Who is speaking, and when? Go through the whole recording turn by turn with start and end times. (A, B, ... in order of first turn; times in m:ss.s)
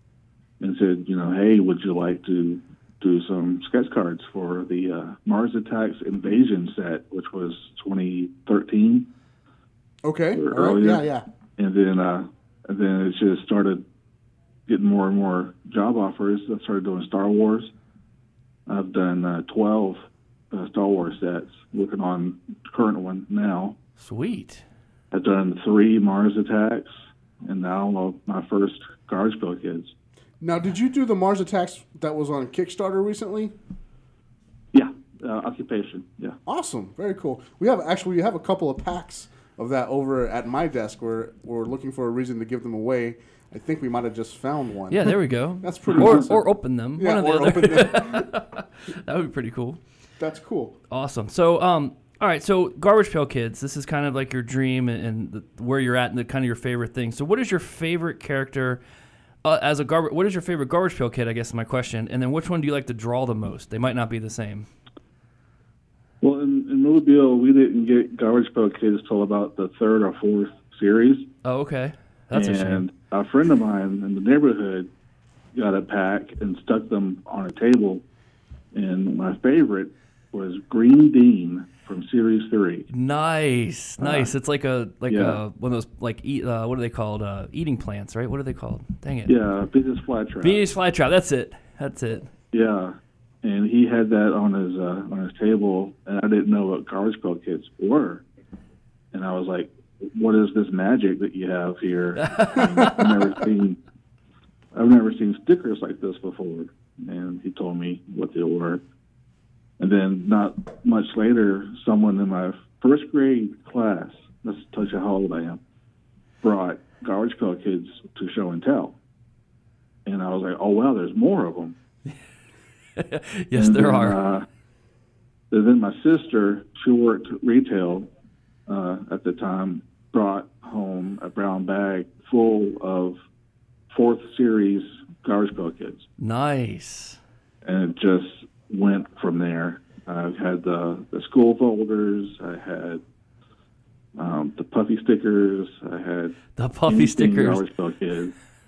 0:00.6-0:09.1 A
0:10.0-0:11.2 B
0:10.3-0:11.0 A
0:11.6-0:13.8 A
0:14.7-0:17.7 A
0:18.7-0:20.0 A
0:20.5-0:23.8 A
0:24.0-0:24.6 C
0:25.1-0:26.9 A
0:27.4-0:29.9 A
0:30.4-0:33.5 B
0:34.7-0:36.4 A
0:36.4-0:46.4 B
0:44.9-0:49.8 C
0:47.0-0:48.3 B
0:50.2-0:50.8 B
0:50.9-0:58.8 C
0:59.4-1:04.7 C
1:06.2-1:11.3 A
1:11.4-1:12.9 C
1:12.3-1:14.9 A
1:15.5-1:18.0 A
1:18.7-1:22.9 A
1:22.9-1:29.3 C
1:24.0-1:24.3 A
1:25.1-1:25.4 A
1:29.2-1:30.6 A
1:30.4-1:32.3 C
1:32.5-1:38.2 A
1:39.1-1:43.8 A
1:42.2-1:43.1 C
1:44.7-1:48.8 A
1:49.8-1:55.6 A
1:56.4-1:59.0 A
2:00.0-2:01.8 A
2:03.0-2:04.2 C
2:03.5-2:04.4 A
2:05.5-2:08.1 A
2:08.7-2:13.2 A
2:13.9-2:16.0 A
2:16.2-2:17.2 C
2:17.6-2:23.0 A
2:24.2-2:28.3 A
2:26.6-2:27.6 C